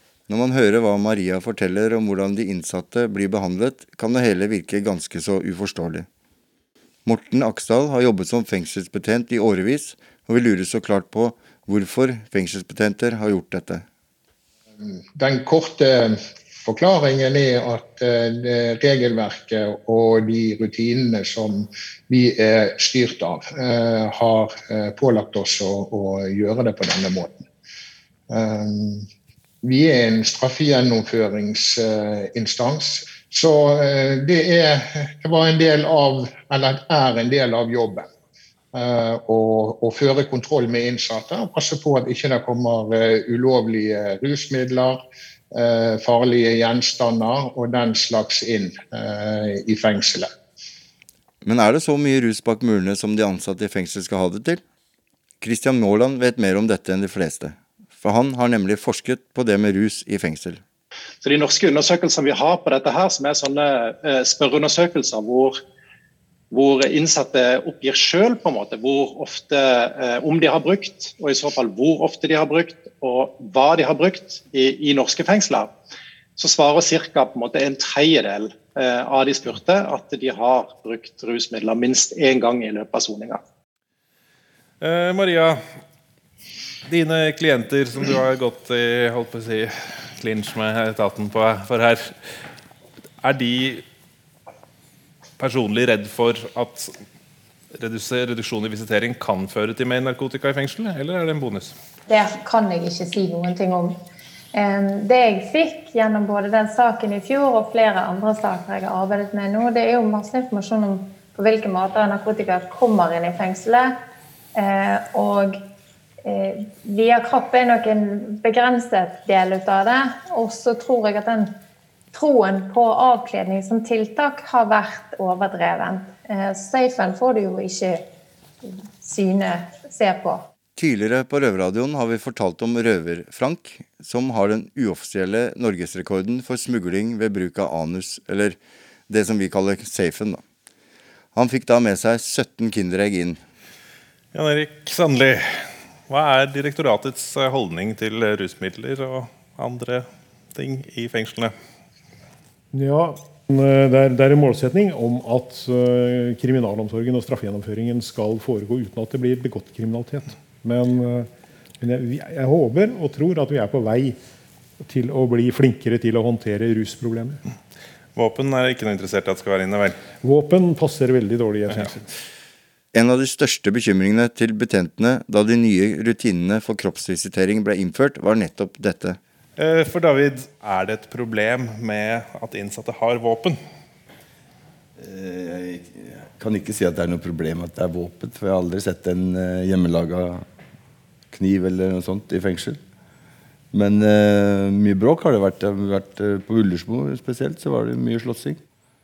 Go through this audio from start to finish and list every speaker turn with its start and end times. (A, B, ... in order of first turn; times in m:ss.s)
0:00.3-0:06.1 A
0:07.0-0:13.8 A
0:14.8-0:27.4 B
0:28.3-0:29.1 B
0:29.6-0:38.1 B
0:38.7-0:45.0 B
0:45.5-0:50.3 B
0:51.4-0:54.6 A
0:55.4-1:00.6 A
1:01.2-1:05.6 C
1:06.5-1:15.7 C
1:16.4-1:23.4 C
1:24.8-1:25.6 D
1:26.8-1:32.2 D
1:33.2-1:33.8 D
1:35.4-1:36.9 D
1:37.7-1:41.8 D
1:42.1-1:44.0 E
1:44.5-1:53.9 E
1:54.5-1:55.6 E
1:56.2-2:01.5 E
2:02.1-2:08.0 E
2:08.6-2:10.4 E
2:10.8-2:18.6 A
2:19.1-2:20.4 A
2:21.3-2:23.4 A
2:24.3-2:31.5 D
2:32.7-2:41.3 F
2:41.8-2:44.2 F
2:44.8-2:47.4 F
2:48.1-2:50.0 D
2:50.2-2:52.1 F
2:52.9-2:59.2 A
2:59.6-3:03.6 D
3:05.0-3:10.4 G
3:11.3-3:12.8 G
3:13.7-3:18.6 G